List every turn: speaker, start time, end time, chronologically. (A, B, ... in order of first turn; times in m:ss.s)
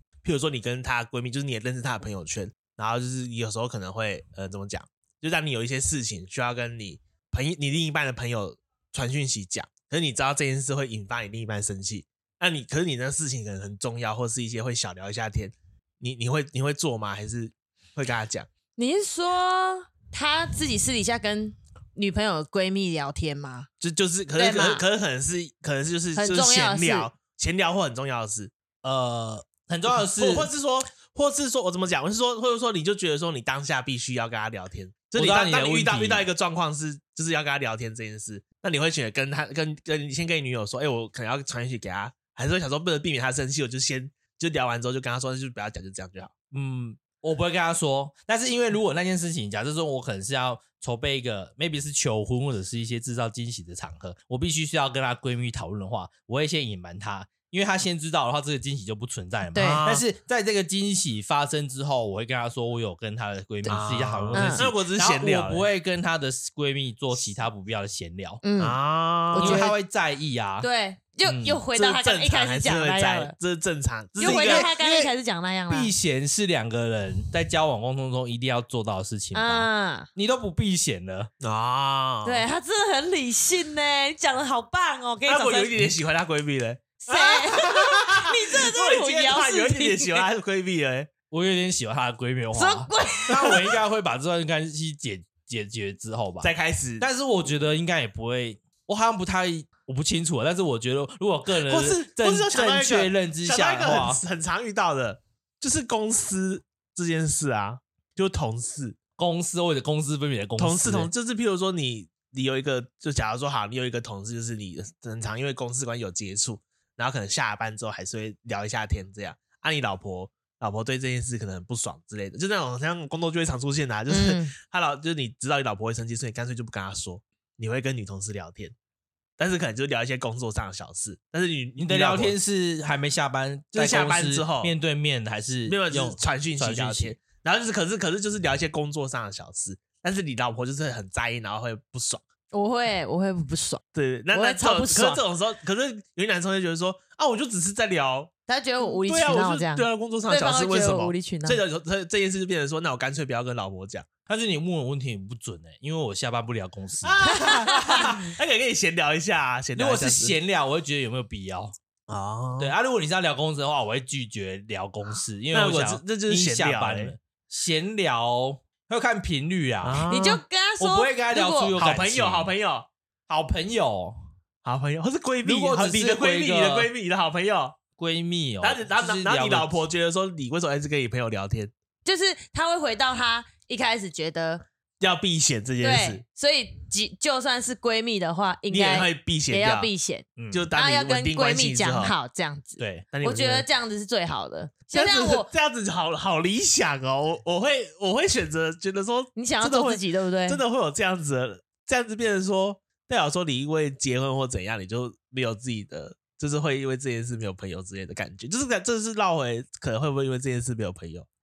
0:00.2-0:18.5 A
0:18.8-0:23.7 B
0:23.8-0:28.5 A
0:24.4-0:24.8 B
0:26.2-0:27.1 B
0:28.8-0:30.5 C
0:30.0-0:46.3 A
0:35.2-0:36.2 C
0:46.5-1:08.4 C
0:59.5-0:59.8 B
0:59.6-1:00.0 A
1:03.7-1:05.7 A
1:04.3-1:04.7 B
1:08.4-1:08.8 B
1:08.6-1:09.7 A
1:09.3-1:09.7 B
1:09.3-1:10.7 C
1:10.6-1:13.3 B
1:11.2-1:11.6 C
1:11.7-1:14.7 A
1:14.2-1:15.1 C
1:14.2-1:15.9 B
1:15.7-1:21.3 C
1:19.3-1:20.1 B
1:21.4-1:22.5 A
1:22.2-1:25.9 B
1:25.2-1:31.1 A
1:27.0-1:30.2 B
1:31.3-1:44.2 C
1:32.5-1:33.8 B
1:36.4-1:37.1 A
1:41.6-1:49.0 A
1:49.2-1:51.1 C
1:50.6-2:08.7 A
2:04.1-2:04.5 B
2:09.4-2:12.4 A
2:11.8-2:17.2 C
2:13.7-2:14.7 A
2:15.7-2:22.2 A
2:22.5-2:23.8 B
2:23.9-2:34.1 A
2:24.3-2:25.2 B
2:28.5-2:31.6 B
2:34.3-2:38.2 C
2:37.0-2:40.4 A
2:37.3-2:38.1 B
2:39.8-2:41.7 C
2:42.1-2:42.7 A
2:42.6-2:50.0 C
2:45.5-2:47.1 A
2:49.8-2:50.4 A
2:50.1-2:51.8 B
2:50.8-2:52.5 C
2:51.8-2:52.9 A
2:53.3-2:54.2 C
2:54.6-2:57.8 A
2:55.4-2:56.9 C
2:58.0-2:59.7 C
2:58.6-3:01.7 A
3:02.0-3:04.6 B
3:05.0-3:06.2 A
3:05.8-3:15.5 B
3:08.7-3:09.9 A
3:10.4-3:10.7 C
3:10.5-3:12.1 A
3:12.8-3:13.0 C
3:13.1-3:13.7 A
3:14.9-3:31.3 A
3:19.4-3:20.6 B